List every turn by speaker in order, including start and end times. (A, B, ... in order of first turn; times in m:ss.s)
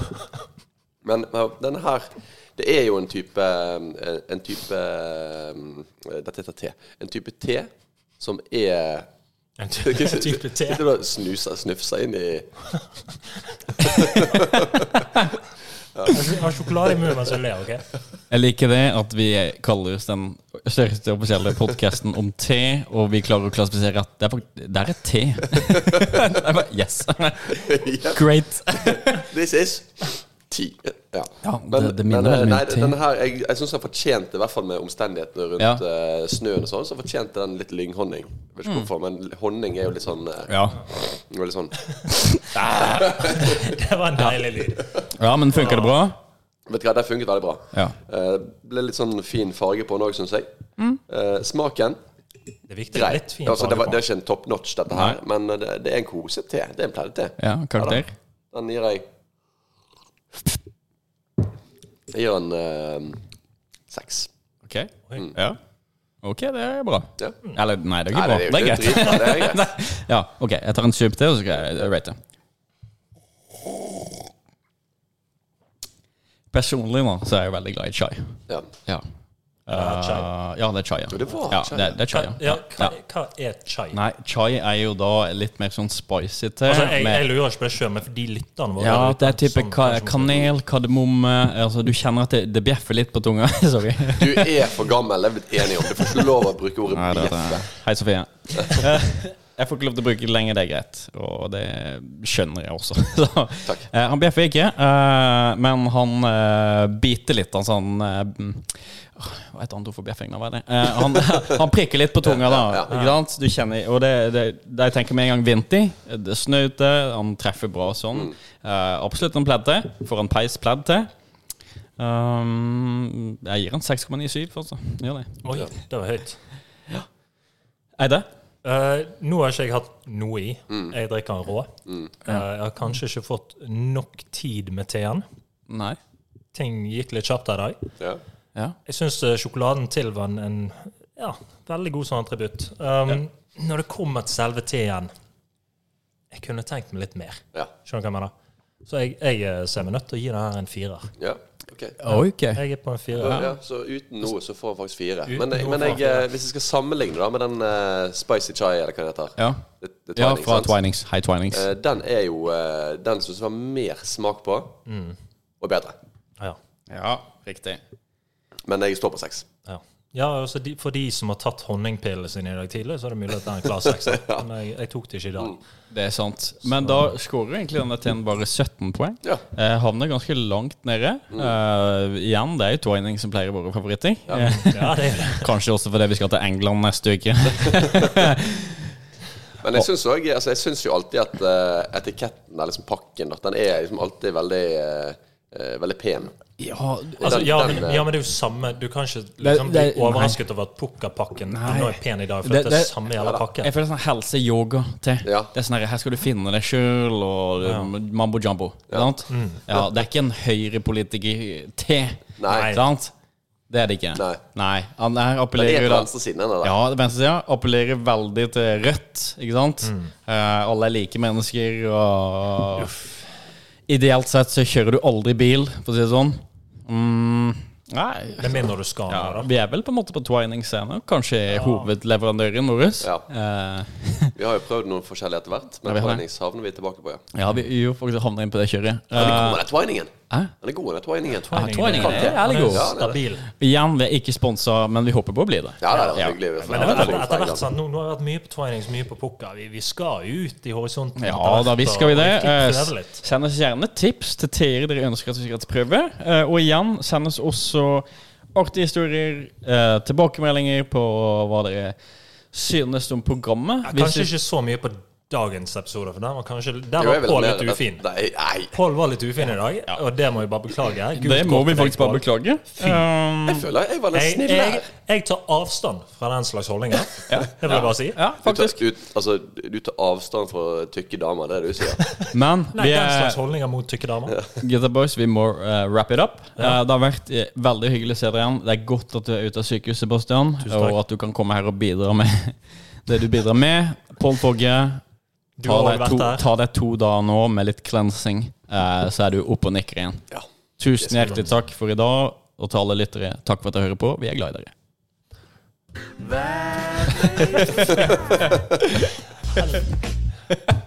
0:01.0-0:09.1 A
0:09.6-0:10.8 B
0:09.8-0:12.5 A
0:13.8-0:14.9 A
0:16.1-0:17.8 B
0:18.3-0:29.2 C
0:27.5-0:41.8 A
0:31.4-0:33.0 C
0:40.5-0:40.8 C
0:42.3-0:43.5 C
0:42.8-0:43.4 A
0:43.2-0:45.9 B
0:45.0-0:46.2 C
0:46.6-0:50.5 A
0:51.1-0:52.0 A
0:52.7-0:54.0 B
0:52.9-0:59.1 A
0:57.4-0:58.1 C
1:02.1-1:03.2 A
1:03.9-1:04.3 A
1:04.6-1:05.6 C
1:06.2-1:12.2 C
1:08.1-1:09.7 A
1:16.5-1:19.0 C
1:19.7-1:22.9 C
1:19.7-1:20.3 B
1:21.1-1:22.0 A
1:22.1-1:24.0 B
1:23.9-1:27.2 C
1:26.6-1:30.5 B
1:28.8-1:34.6 C
1:34.2-1:37.7 A
1:36.9-2:01.1 C
1:52.2-1:52.9 A
2:02.0-2:05.4 C
2:05.4-2:06.4 B
2:08.0-2:08.3 C
2:08.6-2:15.2 B
2:11.8-2:12.1 A
2:15.7-2:16.0 C
2:16.5-2:17.8 B
2:18.8-2:25.1 B
2:26.3-2:28.3 B
2:28.8-2:31.1 B
2:31.2-2:32.0 A
2:32.0-2:32.6 C
2:32.1-2:33.5 B
2:33.2-2:40.7 A
2:35.3-2:36.2 B
2:39.4-2:39.6 C
2:40.2-2:41.7 C
2:41.5-2:44.8 A
2:44.8-2:45.2 B
2:45.6-2:46.0 A
2:46.9-2:47.8 C
2:48.6-2:49.4 A
2:49.7-2:55.6 B
2:54.0-2:54.4 A
2:55.9-3:08.9 C
3:04.3-3:04.6 A
3:04.6-3:05.5 B
3:09.6-3:16.4 A
3:16.6-3:17.6 C
3:17.2-3:18.1 A
3:17.2-3:23.7 B
3:19.4-3:20.4 C
3:21.5-3:23.0 C
3:23.6-3:33.1 C
3:25.2-3:25.5 A
3:27.6-3:27.9 B
3:29.3-3:29.6 B
3:32.4-3:32.7 A
3:32.5-3:32.8 B
3:33.7-3:36.1 C
3:34.1-3:34.4 A
3:35.6-3:36.8 A
3:36.6-3:42.9 C
3:39.8-3:40.1 B
3:42.8-3:43.2 B
3:43.9-3:54.4 C
3:48.4-3:49.5 B
3:51.5-3:51.9 B
3:53.0-3:53.2 A
3:54.3-3:57.2 A
3:55.8-3:56.2 C
3:57.3-3:59.6 C
3:59.1-4:03.2 A
4:01.3-4:03.5 B
4:01.5-4:03.0 C
4:03.6-4:07.2 C
4:05.8-4:07.6 A
4:06.6-4:13.2 B
4:11.2-4:21.9 C
4:22.5-4:24.3 C
4:23.8-4:28.0 B
4:27.0-4:28.7 A
4:28.7-4:33.0 B
4:31.1-4:33.7 C
4:33.4-4:34.9 A
4:34.1-4:38.2 B
4:37.3-4:38.8 C
4:38.4-4:42.0 A
4:42.3-4:43.4 C
4:42.7-4:44.4 B
4:44.6-4:55.0 C
4:50.6-4:51.0 B
4:55.6-4:56.4 B
4:55.6-5:00.2 C
5:00.8-5:04.7 C
5:01.0-5:01.4 A
5:06.3-5:08.5 A
5:07.2-5:08.2 C
5:09.5-5:09.8 B